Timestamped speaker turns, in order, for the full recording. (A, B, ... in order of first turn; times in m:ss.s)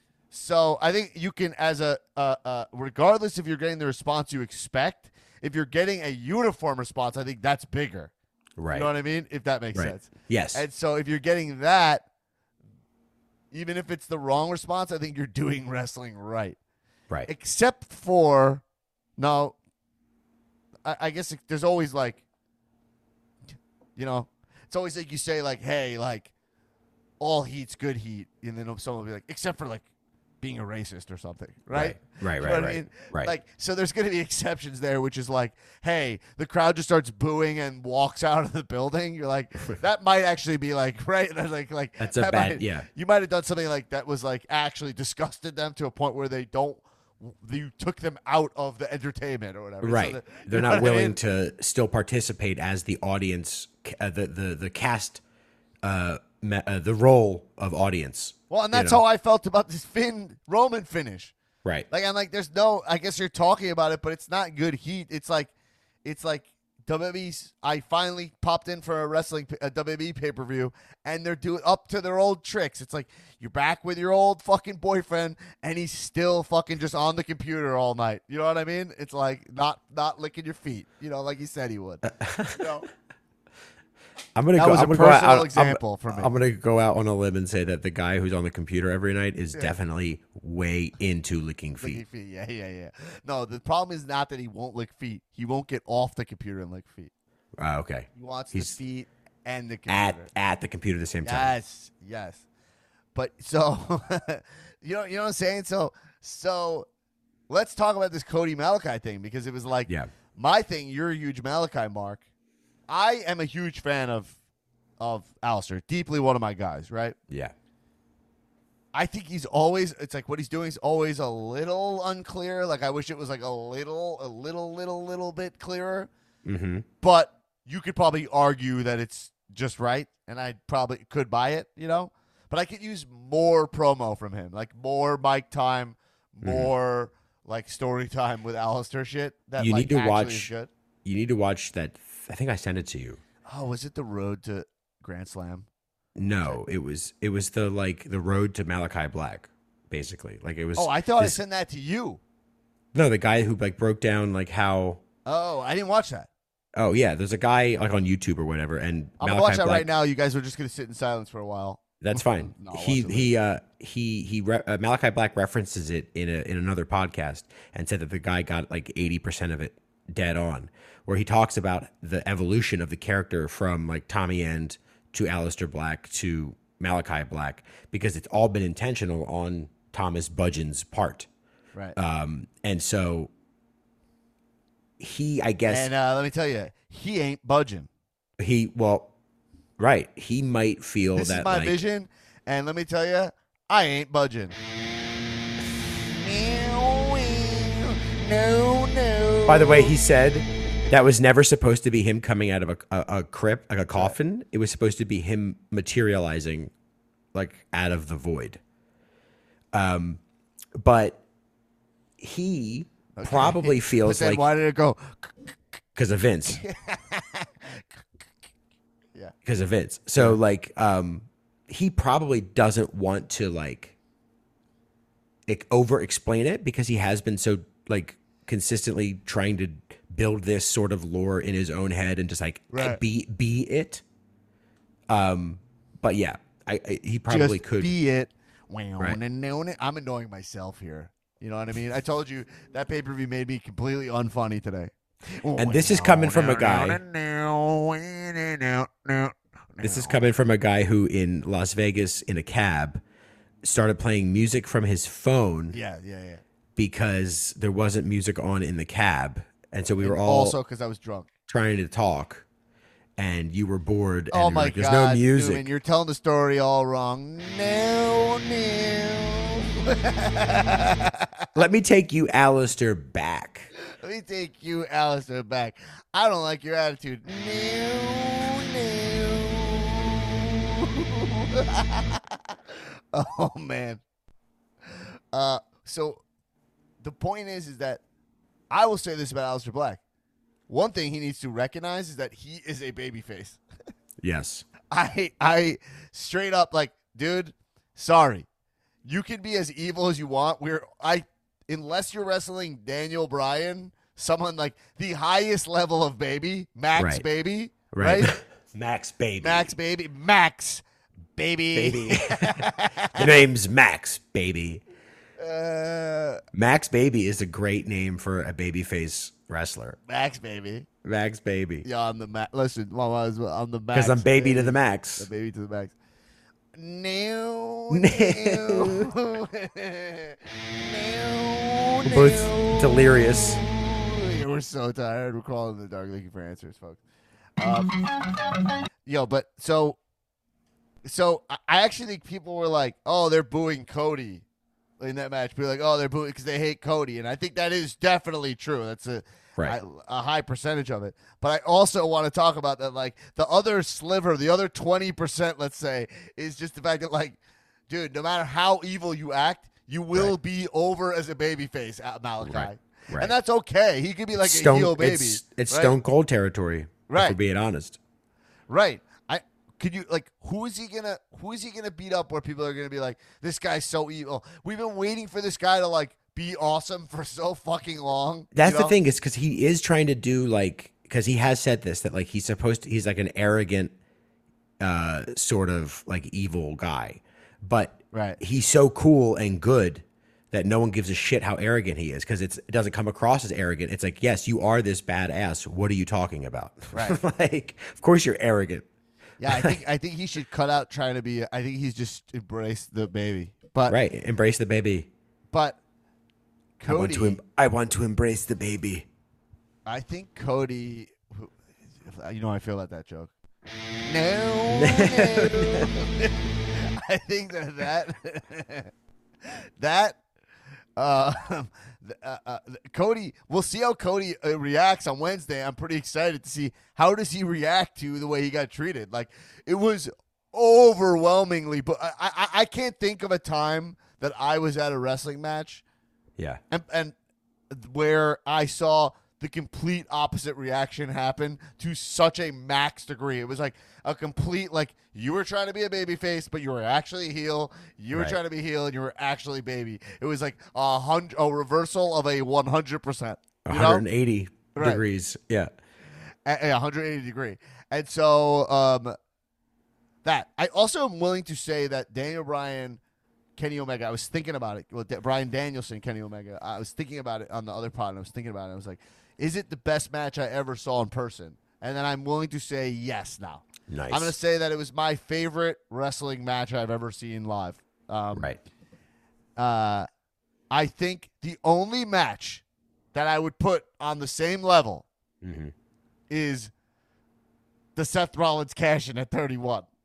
0:00.3-0:08.1 A
0:08.6-0:08.9 B
0:08.7-0:12.0 A
0:09.7-0:10.6 B
0:13.5-0:16.6 A
0:17.2-0:18.6 A
0:19.2-0:19.6 A
0:20.8-0:22.2 A
0:24.0-0:26.3 A
0:27.2-0:29.8 A
0:30.4-0:51.1 A
0:31.7-0:33.3 B
0:42.0-0:42.9 B
0:49.8-0:55.2 B
0:55.8-0:59.0 B
0:58.5-1:01.3 A
1:01.9-1:05.5 A
1:06.0-1:22.8 A
1:22.0-1:22.6 B
1:24.4-1:32.0 B
1:24.6-1:26.3 A
1:31.8-1:37.1 A
1:37.6-1:38.8 B
1:38.1-1:40.3 A
1:39.9-1:41.5 B
1:41.2-1:42.4 A
1:43.1-1:46.8 A
1:47.5-1:52.2 A
1:52.9-1:54.4 A
1:55.0-1:57.2 A
1:58.9-2:06.1 A
2:06.4-2:06.8 B
2:07.0-2:20.7 A
2:16.4-2:16.7 B
2:19.6-2:20.5 B
2:21.0-2:23.2 B
2:23.5-2:25.7 A
2:26.2-2:31.4 B
2:30.8-2:32.2 A
2:32.9-2:35.0 B
2:35.3-2:36.3 A
2:36.8-2:39.9 B
2:39.2-2:43.3 A
2:42.0-3:01.3 B
3:02.0-3:03.3 B
3:05.0-3:05.9 B
3:05.7-3:07.9 A
3:08.4-3:09.1 B
3:09.8-3:11.8 B
3:11.2-3:14.6 A
3:16.0-3:19.9 A
3:19.5-3:26.7 B
3:27.3-3:28.6 B
3:29.7-3:30.2 B
3:30.8-3:31.2 B
3:32.2-3:34.4 B
3:33.2-3:35.8 A
3:36.0-3:36.6 B
3:36.5-3:38.0 A
3:39.4-3:43.9 B
3:45.5-3:54.0 B
3:52.7-3:53.0 A
3:55.1-3:57.9 B
3:57.3-4:10.2 A
4:05.6-4:07.0 B
4:09.8-4:13.0 B
4:13.6-4:15.8 B
4:15.7-4:16.4 A
4:16.8-4:20.5 B
4:20.0-4:21.3 A
4:21.5-4:22.4 B
4:23.2-4:25.6 B
4:24.3-4:31.5 A
4:31.5-4:33.7 B
4:34.0-4:44.0 A
4:44.9-4:46.2 A
4:47.0-4:48.0 A
4:48.7-4:50.0 A
4:50.7-4:53.6 A
4:54.2-4:54.6 B
4:54.9-4:58.5 A
4:59.0-5:08.3 A
5:07.0-5:07.2 B
5:07.9-5:09.7 B
5:09.4-5:10.8 A
5:11.4-5:13.5 A
5:11.7-5:14.8 B
5:15.4-5:16.4 A
5:16.5-5:20.0 B
5:20.1-5:20.9 A
5:21.0-5:21.8 B
5:21.8-5:25.9 A
5:23.9-5:25.3 B
5:26.8-5:37.0 A
5:27.9-5:29.1 B
5:32.0-5:33.6 B
5:37.6-5:38.0 A
5:39.0-5:40.0 A
5:41.0-5:44.4 A
5:45.0-6:06.0 A
6:02.4-6:03.3 B
6:04.4-6:08.0 B
6:07.1-6:07.4 A
6:08.7-6:18.9 A
6:18.5-6:23.9 B
6:24.8-6:38.8 B
6:28.1-6:28.4 A
6:36.9-6:37.2 A
6:39.4-6:44.0 A
6:43.9-6:45.1 B
6:45.5-6:45.8 A
6:46.8-6:47.4 A
6:46.9-6:49.1 B
6:49.8-6:53.3 A
6:54.0-6:58.9 A
6:54.7-6:55.9 B
6:59.8-7:00.2 A
7:01.0-7:15.8 A
7:16.7-7:17.2 A
7:17.7-7:34.0 A
7:28.1-7:28.4 B
7:33.7-7:35.7 B
7:34.7-7:35.0 A
7:36.4-7:39.2 A
7:40.2-7:43.0 A
7:43.6-7:58.5 A
7:53.9-7:54.3 B
7:58.3-7:58.6 B
7:59.6-8:00.1 A
8:00.7-8:05.0 A
8:05.4-8:05.7 B
8:06.3-8:06.7 A
8:08.0-8:09.9 A